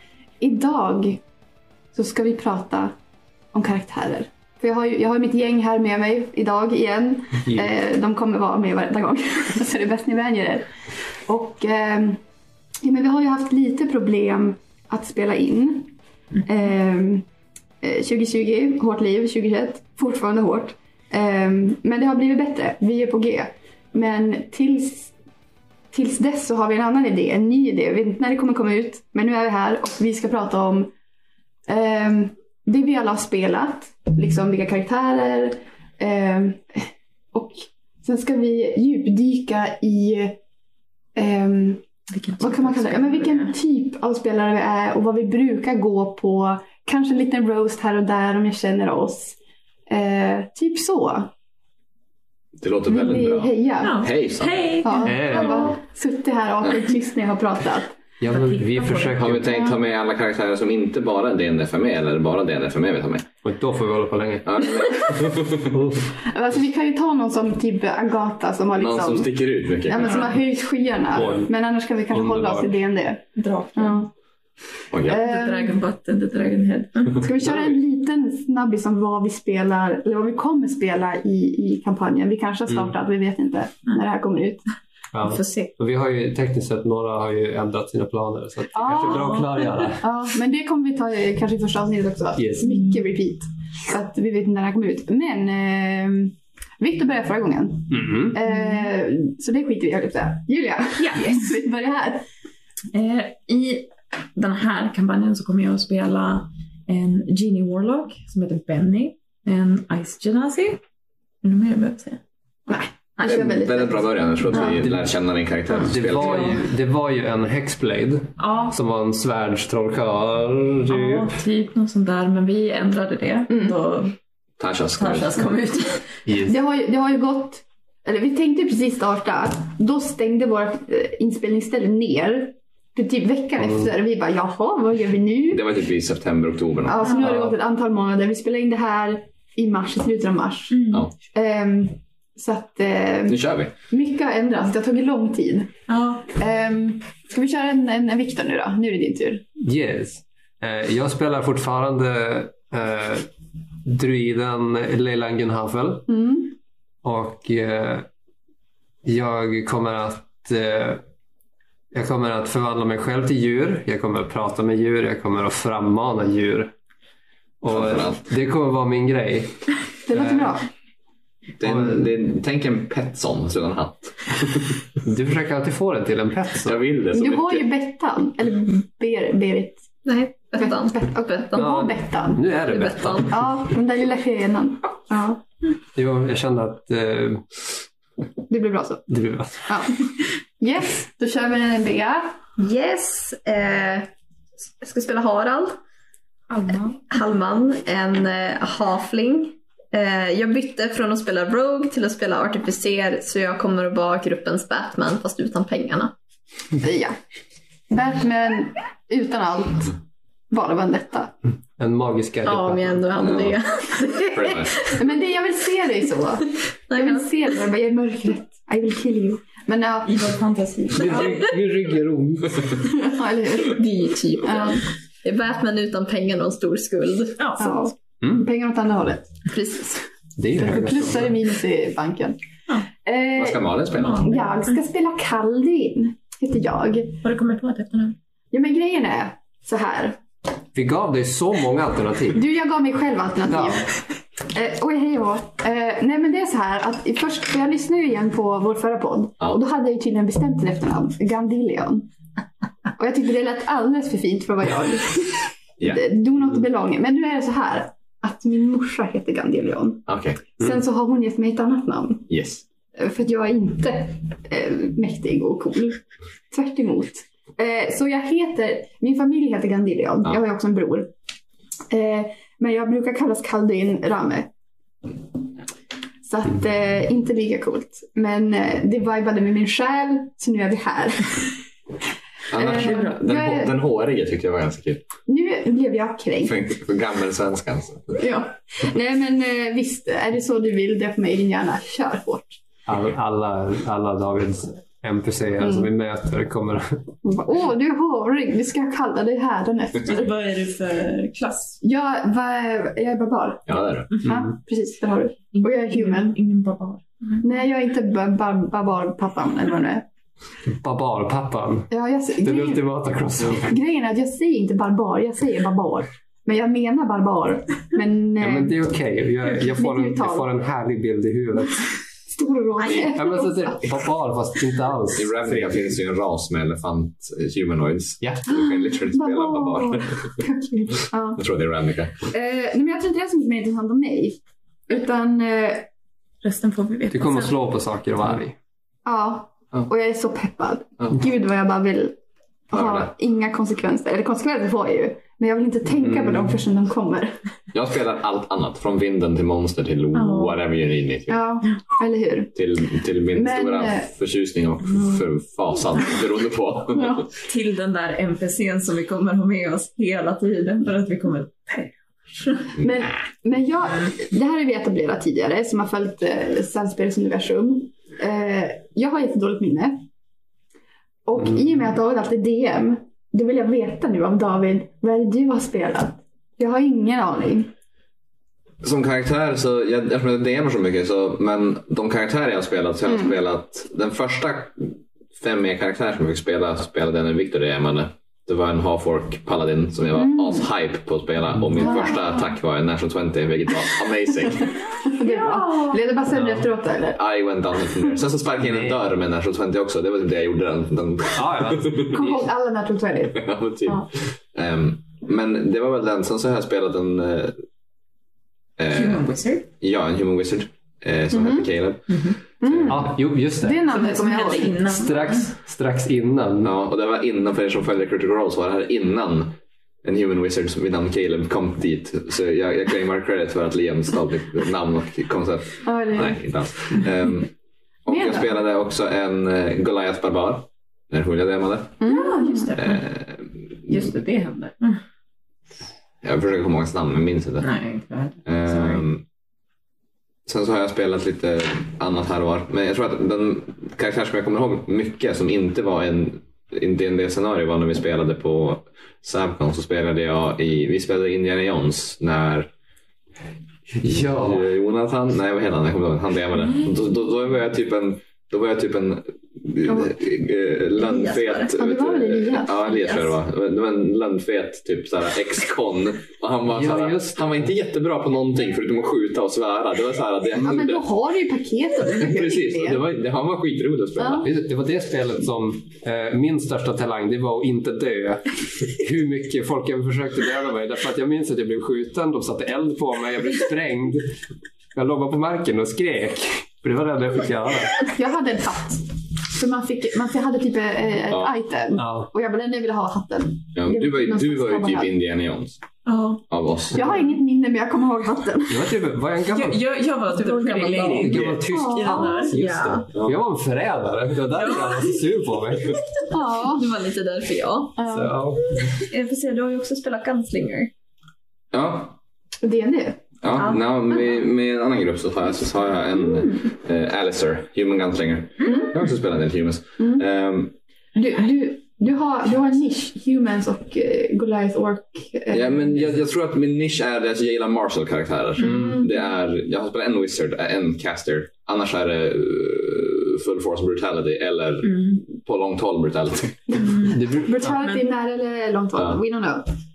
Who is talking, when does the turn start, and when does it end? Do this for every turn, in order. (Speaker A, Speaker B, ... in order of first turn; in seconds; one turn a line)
Speaker A: 0.4-1.2
Speaker A: 1.9-2.9
Speaker A: 3.5-10.7
Speaker A: 11.3-12.2
Speaker A: 12.8-17.2
Speaker A: 17.8-25.1
Speaker A: 25.9-30.9
Speaker A: 31.7-40.4
Speaker A: 41.1-41.8
Speaker B: 42.1-43.5
Speaker A: 42.4-49.4
Speaker A: 49.9-51.3
Speaker C: 52.6-54.8
Speaker A: 52.9-54.1
Speaker B: 53.8-55.7
Speaker A: 54.8-58.0
Speaker D: 55.0-55.7
Speaker D: 58.2-59.7
Speaker B: 58.3-59.3
Speaker C: 59.1-63.3
Speaker D: 63.4-64.6
Speaker C: 64.4-65.8
Speaker D: 65.6-66.1
Speaker A: 66.2-73.2
Speaker C: 68.7-70.4
Speaker D: 71.1-71.5
Speaker D: 72.1-72.7
Speaker B: 73.3-74.0
Speaker A: 73.8-74.1
Speaker C: 74.9-75.2
Speaker A: 75.0-75.8
Speaker B: 75.2-77.2
Speaker A: 77.2-84.6
Speaker D: 85.1-90.0
Speaker B: 85.3-85.7
Speaker A: 88.7-102.2
Speaker B: 89.1-89.5
Speaker D: 92.4-92.7
Speaker B: 92.6-93.0
Speaker D: 97.9-98.4
Speaker B: 101.0-101.5
Speaker B: 102.9-110.8
Speaker B: 111.4-112.2
Speaker A: 112.7-114.8
Speaker C: 113.2-116.6
Speaker D: 114.7-115.1
Speaker D: 115.8-121.3
Speaker B: 116.1-116.6
Speaker B: 118.4-118.7
Speaker B: 120.9-124.1
Speaker A: 123.5-123.7
Speaker C: 124.6-125.5
Speaker B: 125.0-126.0
Speaker D: 126.3-126.5
Speaker A: 126.4-135.6
Speaker C: 135.5-137.1
Speaker A: 136.8-140.8
Speaker D: 137.1-137.6
Speaker B: 140.7-141.1
Speaker A: 141.3-145.7
Speaker C: 143.3-143.7
Speaker B: 145.9-146.2
Speaker A: 146.3-149.4
Speaker D: 149.6-153.3
Speaker D: 153.8-156.1
Speaker A: 156.1-156.5
Speaker D: 157.0-158.1
Speaker D: 159.0-161.0
Speaker D: 161.9-166.7
Speaker D: 167.6-170.6
Speaker C: 167.7-168.2
Speaker A: 170.1-170.6
Speaker C: 171.6-174.8
Speaker D: 171.6-172.1
Speaker D: 175.0-176.8
Speaker C: 176.6-177.7
Speaker A: 177.1-179.8
Speaker E: 180.0-181.8
Speaker A: 180.5-182.4
Speaker D: 181.5-183.4
Speaker E: 182.5-183.3
Speaker A: 183.2-185.4
Speaker D: 185.9-187.4
Speaker A: 188.5-189.0
Speaker D: 189.1-189.7
Speaker A: 189.7-190.0
Speaker A: 190.6-192.3
Speaker E: 192.6-194.1
Speaker E: 194.8-195.8
Speaker B: 196.5-197.0
Speaker E: 197.1-206.1
Speaker A: 206.8-207.2
Speaker A: 207.9-209.9
Speaker A: 210.5-211.3
Speaker D: 211.8-213.0
Speaker E: 212.4-215.0
Speaker C: 213.2-213.6
Speaker C: 214.3-214.8
Speaker A: 214.9-220.3
Speaker E: 216.9-217.3
Speaker B: 220.1-221.4
Speaker D: 220.9-222.9
Speaker A: 222.8-223.8
Speaker E: 223.6-227.6
Speaker B: 227.4-227.7
Speaker A: 227.6-229.3
Speaker E: 229.5-230.0
Speaker D: 230.4-231.3
Speaker A: 230.5-232.4
Speaker A: 233.0-237.2
Speaker C: 233.4-234.3
Speaker B: 233.9-234.7
Speaker B: 237.2-238.2
Speaker A: 238.5-240.2
Speaker D: 240.7-242.4
Speaker A: 242.3-243.9
Speaker D: 243.5-243.8
Speaker A: 244.5-252.1
Speaker A: 253.0-262.3
Speaker C: 260.1-260.4
Speaker C: 262.3-262.6
Speaker A: 262.9-271.1
Speaker A: 271.9-274.5
Speaker A: 276.2-281.5
Speaker A: 282.5-283.7
Speaker C: 282.5-285.1
Speaker B: 282.8-283.1
Speaker A: 285.3-286.5
Speaker C: 286.4-288.2
Speaker A: 288.2-292.6
Speaker D: 292.9-297.1
Speaker A: 295.6-295.9
Speaker A: 297.2-300.3
Speaker B: 300.1-301.8
Speaker A: 301.8-306.4
Speaker C: 303.7-304.1
Speaker B: 305.5-307.4
Speaker A: 307.4-310.0
Speaker D: 310.8-311.9
Speaker A: 311.9-312.9
Speaker D: 312.4-313.8
Speaker A: 313.4-318.8
Speaker D: 318.4-321.8
Speaker A: 319.4-320.5
Speaker A: 322.3-323.8
Speaker D: 323.1-326.0
Speaker C: 325.1-330.3
Speaker D: 328.2-328.5
Speaker A: 328.6-331.4
Speaker C: 331.4-332.1
Speaker A: 332.3-335.9
Speaker B: 336.4-337.5
Speaker D: 337.1-338.6
Speaker A: 339.1-342.1
Speaker A: 342.7-347.3
Speaker C: 342.7-343.1
Speaker D: 346.0-346.5
Speaker C: 347.7-351.4
Speaker B: 350.1-350.6
Speaker A: 351.3-352.5
Speaker C: 352.6-357.2
Speaker A: 353.3-354.1
Speaker A: 356.9-357.2
Speaker B: 357.4-362.7
Speaker A: 362.8-370.0
Speaker A: 371.2-377.7
Speaker C: 378.8-394.7
Speaker A: 390.1-390.7
Speaker D: 391.5-391.8
Speaker A: 391.8-392.1
Speaker A: 395.0-397.2
Speaker B: 395.2-396.0
Speaker D: 396.3-396.6
Speaker C: 397.1-402.5
Speaker D: 398.6-398.9
Speaker D: 401.3-402.1
Speaker A: 402.1-404.1
Speaker C: 403.3-407.6
Speaker C: 408.8-413.1
Speaker B: 408.9-409.7
Speaker A: 411.3-411.7
Speaker B: 412.1-412.4
Speaker A: 412.6-414.8
Speaker D: 412.9-413.9
Speaker B: 413.9-415.5
Speaker D: 414.8-416.7
Speaker C: 416.6-427.5
Speaker A: 425.8-426.4
Speaker C: 428.0-432.0
Speaker A: 428.1-428.5
Speaker A: 432.0-432.7
Speaker B: 432.0-433.0
Speaker C: 432.8-433.8
Speaker B: 433.9-435.0
Speaker C: 436.2-437.7
Speaker B: 437.6-439.0
Speaker C: 438.4-439.2
Speaker C: 440.4-452.7
Speaker D: 454.0-454.7
Speaker C: 454.0-471.0
Speaker E: 461.0-461.7
Speaker A: 461.8-463.3
Speaker D: 466.7-467.7
Speaker A: 470.6-473.0
Speaker C: 472.2-474.5
Speaker A: 474.2-474.4
Speaker D: 474.4-484.4
Speaker D: 484.9-488.0
Speaker A: 488.1-495.1
Speaker D: 491.9-492.3
Speaker C: 493.7-495.8
Speaker B: 496.1-496.4
Speaker C: 496.5-497.2
Speaker A: 496.9-498.9
Speaker D: 498.7-499.8
Speaker B: 499.5-502.6
Speaker E: 500.3-501.3
Speaker D: 501.1-506.0
Speaker C: 501.3-501.6
Speaker A: 501.7-502.4
Speaker E: 502.1-503.1
Speaker B: 504.5-505.2
Speaker A: 506.3-506.9
Speaker E: 506.5-508.2
Speaker A: 508.0-508.3
Speaker D: 508.1-508.9
Speaker E: 509.0-510.9
Speaker C: 511.7-512.1
Speaker A: 512.6-513.2
Speaker C: 513.4-520.7
Speaker A: 518.6-518.9
Speaker A: 520.0-520.2
Speaker A: 521.1-525.9
Speaker C: 525.5-537.1
Speaker A: 528.6-529.1
Speaker B: 528.6-528.9
Speaker B: 534.8-535.2
Speaker A: 536.7-539.7
Speaker D: 537.0-537.9